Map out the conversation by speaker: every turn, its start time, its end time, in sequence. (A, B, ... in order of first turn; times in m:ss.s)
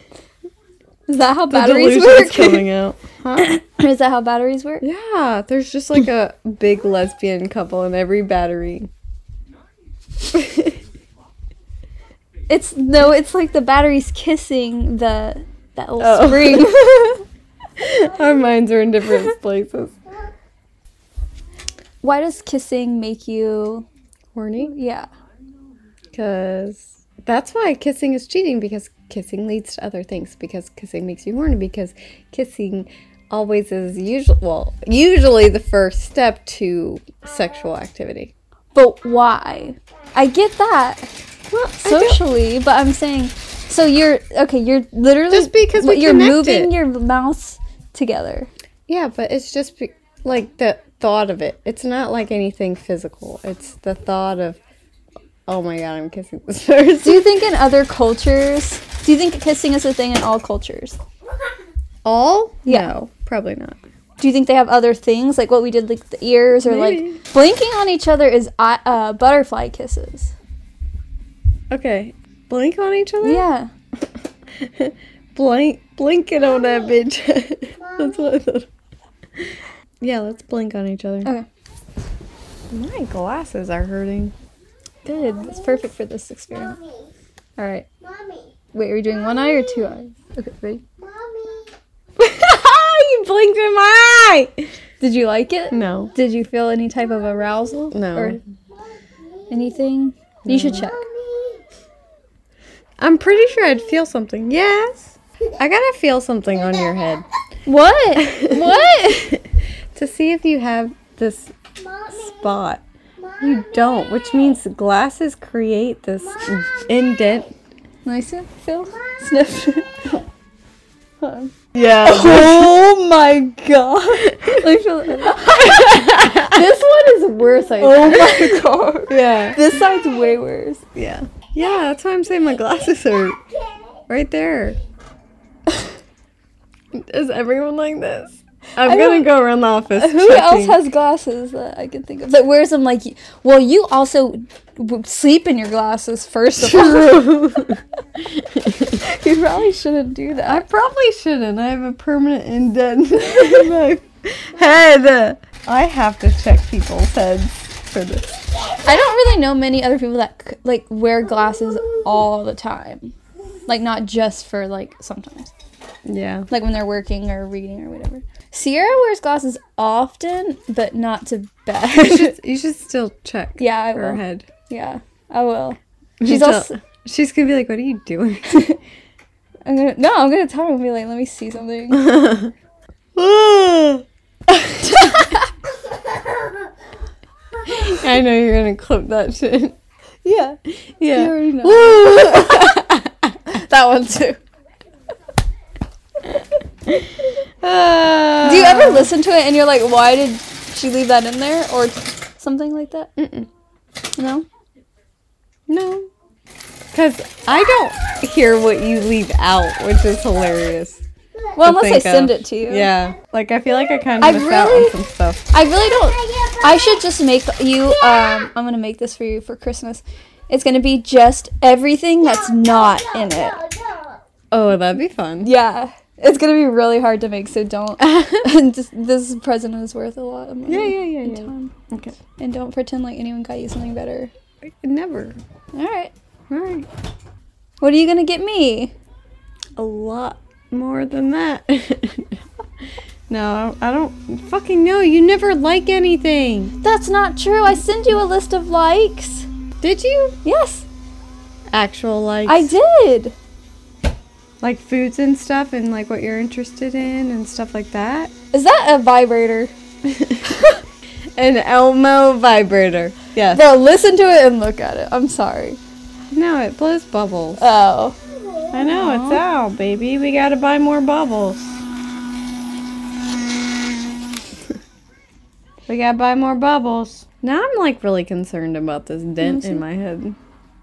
0:01.1-0:02.7 A
0:01.5-0:03.6 B
0:03.4-0:04.9 A
0:04.8-0:08.9 B
0:10.3-0:10.8 B
0:12.5-0:17.2 A
0:16.0-0:17.1 B
0:17.8-0:20.0 B
0:22.0-0:23.9 A
0:24.3-0:24.7 B
0:24.6-0:25.1 A
0:26.1-0:38.3 B
0:38.8-0:41.1 A
0:41.5-0:42.2 B
0:41.8-0:48.5 A
0:45.3-0:46.7 B
0:48.9-0:54.6 B
0:55.5-0:57.3 B
0:57.0-1:01.0 A
1:02.0-1:03.8 B
1:04.2-1:10.3 A
1:06.6-1:07.2 B
1:11.7-1:13.5 B
1:13.2-1:13.7 A
1:14.6-1:18.7 B
1:16.5-1:17.0 C
1:17.8-1:18.4 C
1:19.4-1:21.3 B
1:22.7-1:24.3 B
1:25.0-1:26.8 A
1:25.1-1:25.9 C
1:26.5-1:27.1 C
1:27.6-1:27.9 A
1:28.0-1:30.0 C
1:28.7-1:30.8 A
1:31.0-1:31.7 C
1:32.2-1:34.7 B
1:35.0-1:38.4 A
1:35.7-1:36.1 B
1:37.9-1:38.4 B
1:38.8-1:39.8 C
1:39.5-1:41.0 A
1:40.5-1:40.9 B
1:40.6-1:41.6 C
1:43.0-1:47.2 B
1:46.6-1:47.2 C
1:47.7-1:49.4 A
1:48.2-1:51.5 B
1:51.8-1:52.6 C
1:52.1-1:52.8 B
1:53.2-1:54.6 C
1:53.4-1:57.5 B
1:56.4-1:56.9 C
1:58.0-2:00.2 A
1:58.9-1:59.5 C
2:01.2-2:10.8 A
2:01.7-2:02.8 B
2:04.2-2:06.8 B
2:07.8-2:09.6 B
2:11.0-2:13.4 B
2:12.9-2:13.8 C
2:14.1-2:14.8 B
2:16.9-2:20.8 B
2:18.8-2:19.3 A
2:19.9-2:27.4 A
2:26.6-2:29.0 B
2:29.0-2:30.6 A
2:30.4-2:38.4 B
2:38.8-2:43.1 A
2:43.7-2:45.5 A
2:46.0-2:46.5 B
2:46.5-2:52.4 A
2:52.0-2:54.5 B
2:53.6-2:56.8 A
2:56.2-2:58.6 B
2:58.5-2:58.8 A
2:59.6-3:02.2 A
3:01.9-3:02.5 B
3:03.2-3:05.4 B
3:05.0-3:05.4 A
3:07.7-3:09.8 B
3:10.2-3:10.6 A
3:11.0-3:14.4 B
3:11.1-3:12.5 A
3:16.2-3:19.1 B
3:18.4-3:23.1 A
3:23.2-3:23.5 B
3:24.2-3:24.5 A
3:25.7-3:26.1 B
3:26.9-3:31.0 B
3:31.6-3:32.9 A
3:31.6-3:35.4 B
3:34.2-3:35.0 A
3:35.5-3:43.6 A
3:35.5-3:37.1 C
3:37.9-3:38.5 C
3:42.2-3:44.2 C
3:44.5-3:45.5 B
3:45.4-3:51.7 A
3:48.0-3:48.5 B
3:50.7-3:52.2 B
3:52.4-3:54.3 A
3:54.6-3:55.4 B
3:55.7-3:56.1 A
3:56.5-3:56.9 B
3:57.8-3:58.9 A
3:59.8-4:02.4 B
4:03.3-4:06.7 B
4:06.8-4:09.5 A
4:09.8-4:10.4 B
4:10.4-4:10.9 A
4:11.7-4:12.7 B
4:12.5-4:13.4 A
4:14.6-4:18.3 B
4:18.5-4:19.7 A
4:20.0-4:20.7 B
4:21.4-4:23.6 B
4:23.5-4:25.8 A
4:26.3-4:27.6 B
4:27.6-4:28.2 A
4:28.3-4:28.8 C
4:28.7-4:31.7 B
4:28.8-4:29.4 A
4:35.9-4:40.4 B
4:39.4-4:39.8 A